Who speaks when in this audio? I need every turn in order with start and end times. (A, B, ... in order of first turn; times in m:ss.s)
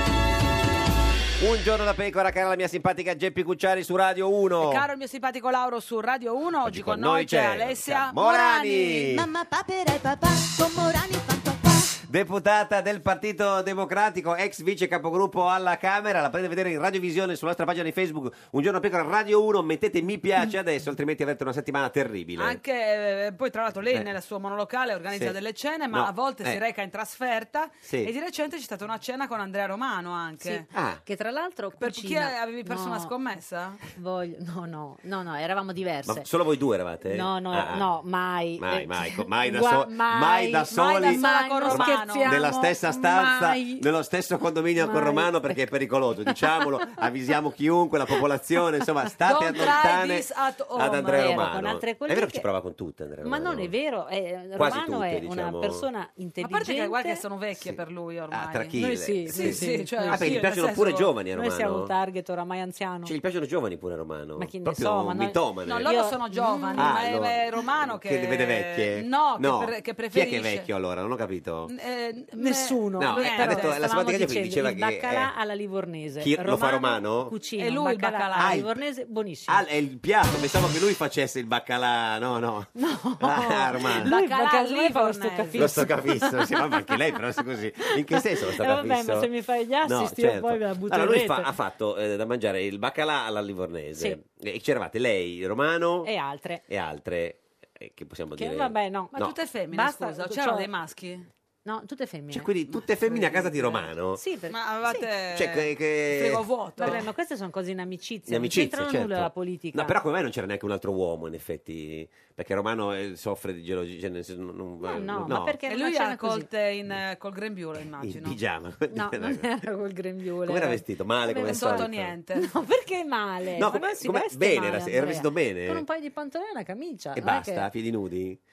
0:01.4-0:04.9 A
0:04.6-0:09.1 B
0:06.6-0:09.3 A
0:09.0-0:11.9 C
0:12.0-0:22.6 A
0:22.4-0:30.7 B
0:25.9-0:26.6 A
0:27.8-0:28.1 A
0:30.4-0:33.1 D
0:30.7-0:31.1 A
0:31.8-0:33.8 B
0:34.0-0:36.3 D
0:36.0-0:38.0 A
0:37.0-0:43.9 D
0:38.6-0:53.8 A
0:40.8-0:42.4 B
0:44.8-0:45.6 D
0:46.3-0:46.6 D
0:49.2-0:51.4 B
0:51.0-0:52.5 D
0:53.2-0:57.2 D
0:54.5-0:55.9 A
0:56.4-1:01.1 B
0:58.3-1:02.0 A
0:58.8-1:00.4 D
1:01.3-1:03.1 D
1:03.0-1:06.0 A
1:04.4-1:07.0 D
1:05.6-1:10.7 B
1:06.7-1:11.7 A
1:11.7-1:13.8 B
1:12.3-1:19.6 D
1:13.0-1:15.3 A
1:16.2-1:17.4 A
1:17.5-1:18.6 B
1:18.4-1:18.8 A
1:19.5-1:24.1 A
1:22.8-1:27.0 D
1:24.0-1:25.8 B
1:25.6-1:36.1 A
1:27.8-1:31.5 D
1:36.0-1:36.6 D
1:36.7-1:39.4 A
1:38.4-1:40.7 D
1:39.1-1:41.3 B
1:41.6-1:42.5 D
1:42.3-1:44.2 A
1:42.7-1:43.8 B
1:43.1-1:45.1 D
1:44.5-1:47.0 B
1:45.3-1:47.1 A
1:46.8-1:50.0 D
1:48.3-1:55.6 A
1:54.8-1:56.5 D
1:55.7-1:58.4 B
1:58.0-1:59.5 A
1:58.9-2:07.7 D
2:00.4-2:02.2 A
2:01.4-2:02.5 B
2:03.5-2:05.9 A
2:07.1-2:08.4 A